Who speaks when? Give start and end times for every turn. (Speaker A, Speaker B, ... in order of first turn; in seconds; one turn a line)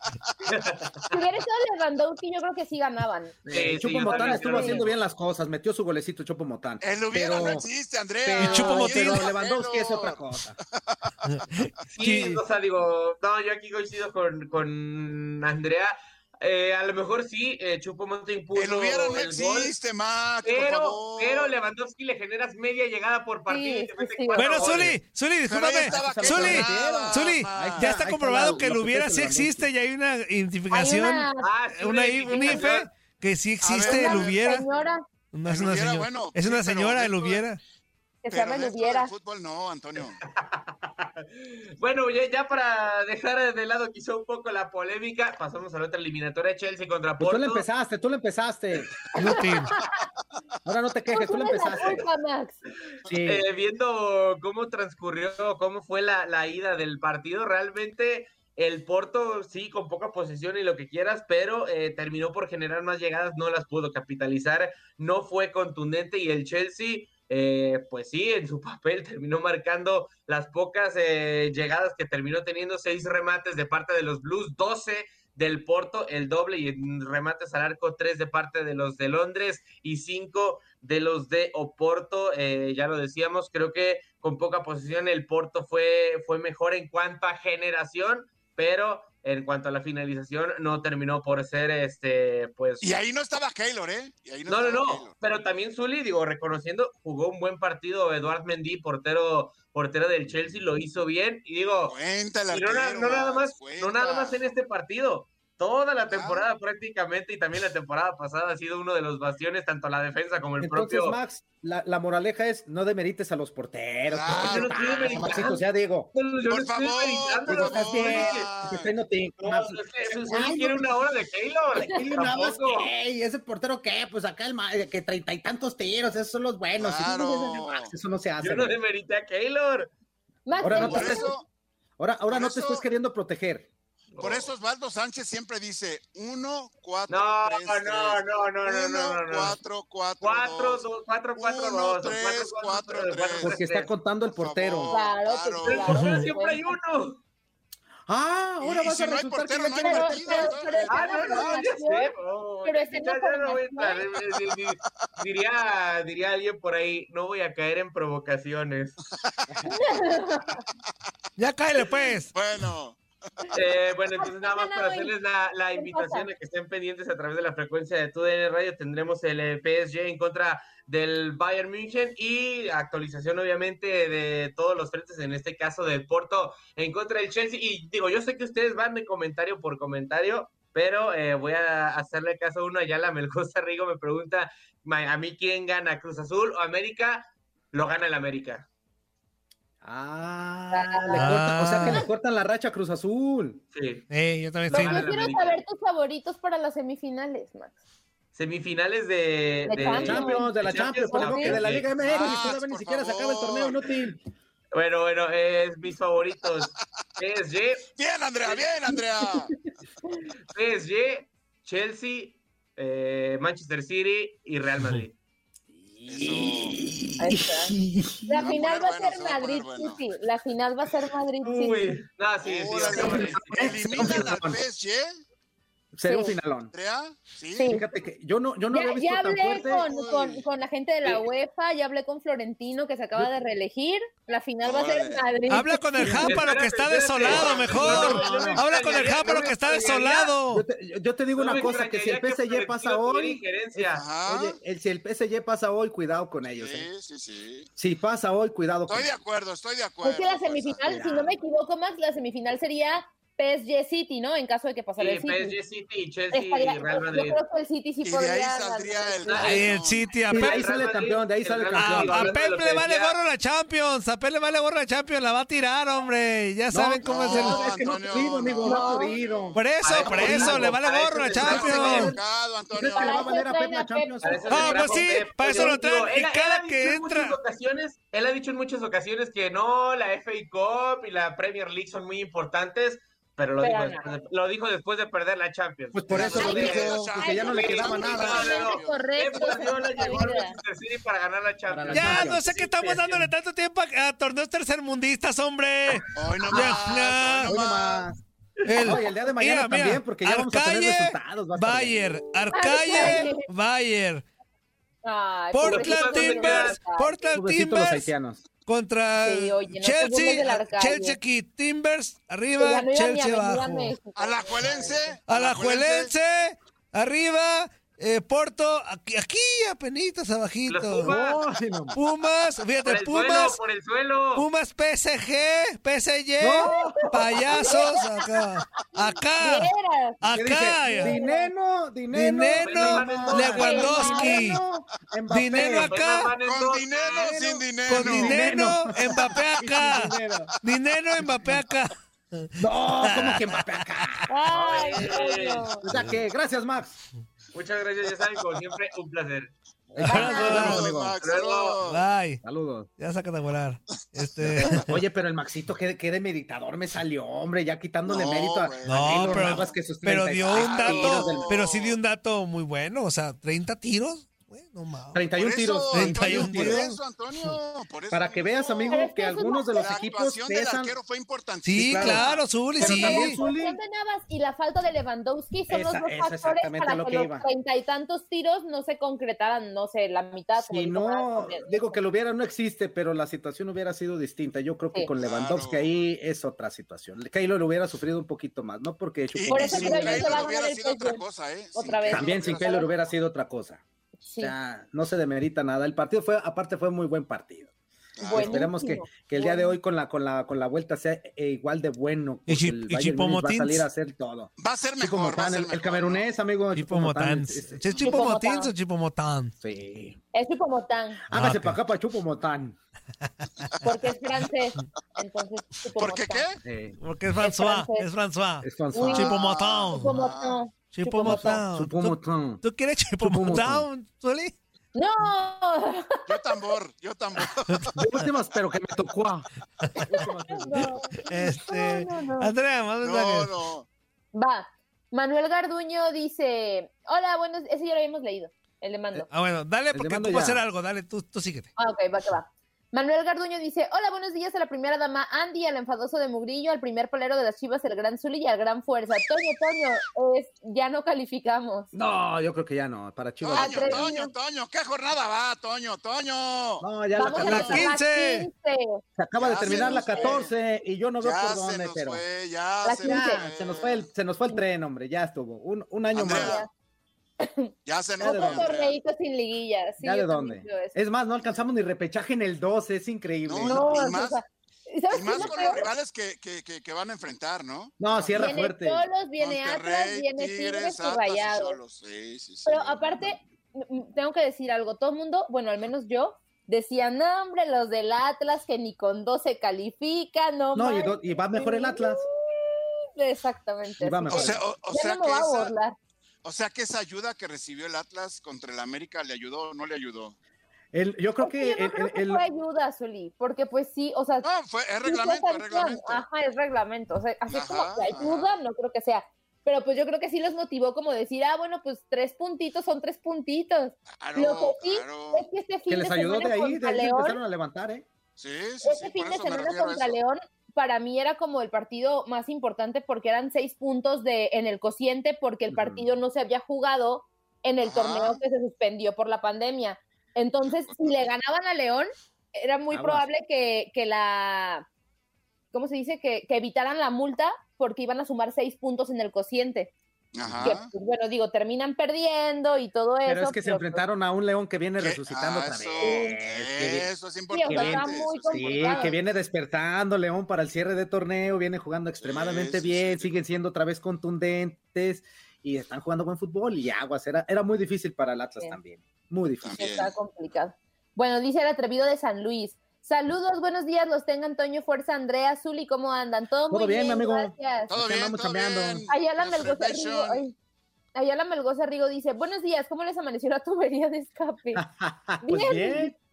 Speaker A: 0.5-1.1
Speaker B: 1.1-4.9
Speaker C: 3.5-7.7
Speaker A: 3.5-4.9
Speaker D: 6.8-10.2
Speaker C: 8.2-10.6
Speaker E: 8.4-9.3
Speaker D: 10.8-11.3
Speaker E: 11.3-12.4
Speaker A: 11.9-19.7
Speaker D: 18.6-21.6
Speaker A: 20.4-25.0
Speaker B: 23.5-24.6
Speaker E: 24.4-34.7
Speaker D: 25.5-27.9
Speaker C: 25.9-29.7
Speaker B: 30.7-31.5
Speaker A: 31.4-32.9
Speaker B: 32.3-32.7
Speaker D: 32.5-32.8
Speaker D: 33.6-34.4
Speaker B: 33.8-35.0
Speaker E: 35.3-37.6
Speaker D: 35.5-37.4
Speaker B: 38.2-39.1
Speaker D: 38.3-40.2
Speaker A: 40.2-47.6
Speaker C: 47.2-49.1
Speaker E: 49.2-49.7
Speaker B: 49.3-49.8
Speaker C: 50.6-52.0
Speaker B: 51.1-52.6
Speaker C: 53.1-53.5
Speaker A: 53.1-92.9
Speaker D: 92.8-95.1
Speaker A: 94.5-102.0
Speaker D: 101.9-104.4
Speaker A: 102.5-111.2
Speaker D: 106.1-106.5
Speaker C: 110.6-116.1
Speaker D: 114.1-115.5
Speaker A: 114.3-115.6
Speaker A: 116.1-118.5
Speaker D: 116.5-118.9
Speaker C: 117.5-121.0
Speaker A: 119.4-122.9
Speaker C: 121.7-128.8
Speaker D: 126.8-127.9
Speaker A: 128.4-129.9
Speaker B: 130.5-131.3
Speaker C: 130.6-131.3
Speaker D: 130.7-131.5
Speaker C: 132.0-133.7
Speaker D: 132.3-132.8
Speaker A: 134.1-134.5
Speaker D: 134.2-140.8
Speaker A: 137.1-139.6
Speaker A: 140.2-143.9
Speaker D: 141.4-143.6
Speaker C: 143.4-144.9
Speaker D: 144.3-145.9
Speaker B: 144.9-146.8
Speaker A: 145.7-147.2
Speaker E: 145.9-146.2
Speaker C: 148.1-150.7
Speaker D: 148.6-151.6
Speaker B: 149.8-152.1
Speaker A: 150.9-159.0
Speaker B: 152.7-154.0
Speaker B: 159.7-160.6
Speaker E: 161.4-162.3
Speaker D: 162.3-163.5
Speaker A: 163.5-188.7
Speaker B: 164.2-165.1
Speaker B: 165.7-166.3
Speaker C: 189.8-193.6
Speaker B: 190.7-192.1
Speaker E: 191.1-192.0
Speaker A: 193.7-194.1
Speaker E: 194.1-195.1
Speaker A: 194.7-195.6
Speaker B: 194.7-197.7
Speaker A: 198.3-201.9
Speaker B: 199.7-200.6
Speaker C: 199.8-204.2
Speaker B: 201.1-201.6
Speaker D: 202.0-203.9
Speaker A: 204.7-207.8
Speaker D: 208.0-209.5
Speaker A: 210.5-215.1
Speaker C: 215.7-218.4
Speaker D: 216.1-216.8
Speaker B: 217.2-217.7
Speaker B: 218.3-222.0
Speaker D: 218.3-220.0
Speaker A: 221.4-224.3
Speaker D: 222.4-225.1
Speaker C: 222.9-224.6
Speaker C: 225.9-226.7
Speaker B: 226.1-226.3
Speaker D: 226.7-227.8
Speaker B: 227.6-227.8
Speaker C: 227.7-229.9
Speaker B: 228.7-236.2
Speaker D: 229.6-230.4
Speaker D: 234.6-235.2
Speaker E: 235.5-240.7
Speaker A: 236.2-240.3
Speaker C: 237.2-238.7
Speaker D: 237.3-237.9
Speaker C: 240.5-246.9
Speaker A: 241.3-244.1
Speaker D: 243.9-244.6
Speaker D: 246.4-247.7
Speaker C: 247.8-249.1
Speaker D: 248.9-251.1
Speaker B: 250.0-255.6
Speaker C: 250.9-251.3
Speaker A: 255.0-257.4
Speaker B: 256.3-259.5
Speaker D: 258.0-260.1
Speaker A: 259.3-259.7
Speaker E: 259.4-260.6
Speaker C: 260.3-262.4
Speaker A: 260.3-263.2
Speaker E: 261.8-267.6
Speaker C: 266.7-270.7
Speaker D: 267.0-270.5
Speaker B: 268.6-269.1
Speaker E: 269.5-272.1
Speaker A: 269.8-272.1
Speaker D: 271.4-273.3
Speaker C: 271.4-272.2
Speaker C: 272.7-274.9
Speaker B: 272.8-274.8
Speaker A: 274.2-293.3
Speaker E: 274.5-277.4
Speaker B: 275.5-275.8
Speaker B: 283.6-284.1
Speaker C: 285.9-288.6
Speaker D: 286.1-289.4
Speaker B: 286.3-290.6
Speaker C: 291.7-292.4
Speaker E: 291.9-297.6
Speaker D: 296.1-298.1
Speaker C: 297.5-298.2
Speaker E: 298.7-304.2
Speaker C: 298.8-302.2
Speaker B: 302.5-303.4
Speaker B: 305.0-307.2
Speaker E: 305.5-308.1
Speaker A: 305.6-306.8
Speaker C: 307.3-308.4
Speaker E: 308.6-314.0
Speaker B: 309.2-311.2
Speaker B: 312.6-315.1
Speaker D: 314.1-316.1
Speaker E: 315.3-321.1
Speaker A: 320.7-321.4
Speaker C: 321.0-322.0
Speaker E: 321.9-323.6
Speaker A: 322.9-324.5
Speaker E: 324.4-329.7
Speaker C: 326.4-327.8
Speaker B: 326.6-328.0
Speaker B: 329.4-330.2
Speaker E: 330.2-331.2
Speaker C: 330.2-335.9
Speaker B: 330.8-331.5
Speaker E: 332.1-334.6
Speaker A: 332.6-334.1
Speaker B: 333.6-334.4
Speaker E: 335.3-336.3
Speaker A: 335.6-337.4
Speaker D: 336.4-338.5
Speaker C: 337.1-340.5
Speaker E: 337.9-344.0
Speaker C: 341.2-341.5
Speaker C: 342.6-344.3
Speaker B: 344.3-345.9
Speaker A: 344.5-345.7
Speaker C: 345.8-347.0
Speaker A: 347.5-349.5
Speaker C: 349.9-351.2
Speaker E: 350.0-350.9
Speaker B: 350.1-350.6
Speaker A: 350.3-351.8
Speaker D: 350.4-352.1
Speaker E: 351.8-352.4
Speaker C: 352.4-352.9
Speaker E: 353.0-355.0
Speaker D: 354.0-354.9
Speaker C: 354.4-361.6
Speaker D: 358.1-359.9
Speaker E: 358.9-365.2
Speaker D: 360.5-362.0
Speaker C: 365.1-366.8
Speaker D: 365.3-369.1
Speaker E: 365.9-367.0
Speaker C: 368.1-370.9
Speaker B: 368.9-370.1
Speaker D: 369.7-372.4
Speaker E: 371.6-373.4
Speaker C: 371.8-372.3
Speaker C: 372.8-373.8
Speaker B: 372.8-382.0
Speaker C: 375.7-377.5
Speaker C: 380.6-390.5
Speaker D: 385.2-385.9
Speaker D: 389.3-392.9
Speaker B: 389.5-391.2
Speaker B: 391.7-392.9
Speaker C: 392.1-393.8
Speaker B: 394.3-394.6
Speaker C: 394.4-397.7
Speaker D: 398.2-398.7
Speaker B: 398.2-399.8
Speaker C: 398.2-408.0
Speaker E: 402.5-403.9
Speaker D: 404.6-406.2
Speaker E: 406.7-409.6
Speaker B: 408.0-408.7
Speaker C: 409.6-410.2
Speaker B: 410.3-411.2
Speaker C: 411.3-412.8
Speaker E: 411.3-411.8
Speaker B: 413.8-416.4
Speaker D: 416.0-416.6
Speaker C: 416.6-417.0
Speaker E: 417.0-420.1
Speaker B: 417.4-418.1
Speaker C: 418.6-419.3
Speaker B: 418.9-419.3
Speaker D: 419.2-420.6
Speaker B: 419.9-421.6
Speaker E: 420.9-424.6
Speaker C: 421.0-422.6
Speaker C: 423.2-423.9
Speaker B: 424.9-426.7
Speaker D: 426.3-428.0
Speaker C: 428.0-430.9
Speaker B: 430.0-432.5
Speaker E: 431.3-433.5
Speaker D: 433.0-433.9
Speaker B: 434.3-439.3
Speaker E: 439.3-441.7
Speaker C: 439.9-440.6
Speaker B: 441.8-451.9
Speaker C: 451.9-454.1
Speaker D: 453.4-456.9
Speaker B: 453.6-454.3
Speaker C: 456.8-457.9
Speaker B: 457.1-459.0
Speaker D: 457.4-457.7
Speaker E: 457.4-458.5
Speaker C: 459.2-462.2
Speaker D: 459.4-460.5
Speaker B: 459.6-460.3
Speaker D: 461.2-464.1
Speaker B: 462.8-463.4
Speaker C: 463.0-466.6
Speaker D: 466.1-466.6
Speaker B: 466.2-466.7
Speaker B: 467.4-470.9
Speaker D: 467.9-469.0
Speaker C: 468.2-468.7
Speaker C: 470.0-474.1
Speaker D: 473.4-474.4
Speaker B: 473.6-475.9
Speaker D: 475.1-478.6
Speaker C: 475.3-475.9
Speaker C: 478.0-479.1
Speaker B: 478.3-481.8
Speaker D: 479.4-483.3
Speaker B: 482.7-495.9
Speaker C: 490.8-492.2
Speaker C: 494.0-494.6
Speaker D: 494.3-495.7
Speaker D: 496.4-500.4
Speaker C: 500.9-502.4
Speaker B: 501.4-504.5
Speaker D: 504.4-506.2
Speaker B: 505.0-517.4
Speaker D: 507.5-508.5
Speaker D: 514.2-515.5
Speaker C: 515.9-518.1
Speaker D: 518.4-520.2
Speaker B: 518.8-534.9
Speaker C: 525.7-526.1
Speaker D: 527.8-528.4
Speaker D: 530.7-531.2
Speaker C: 532.9-533.3
Speaker B: 535.7-539.9
Speaker D: 540.4-540.9
Speaker C: 540.4-540.8
Speaker B: 540.6-544.0
Speaker C: 543.2-547.1
Speaker D: 545.0-549.2
Speaker B: 546.0-546.3
Speaker B: 547.5-549.1
Speaker C: 547.6-559.8
Speaker D: 552.2-553.3
Speaker D: 559.6-560.1
Speaker B: 559.7-567.9
Speaker C: 566.7-569.0
Speaker D: 567.9-570.4
Speaker B: 569.1-570.5
Speaker B: 571.1-574.8
Speaker C: 574.8-576.1
Speaker B: 575.4-576.1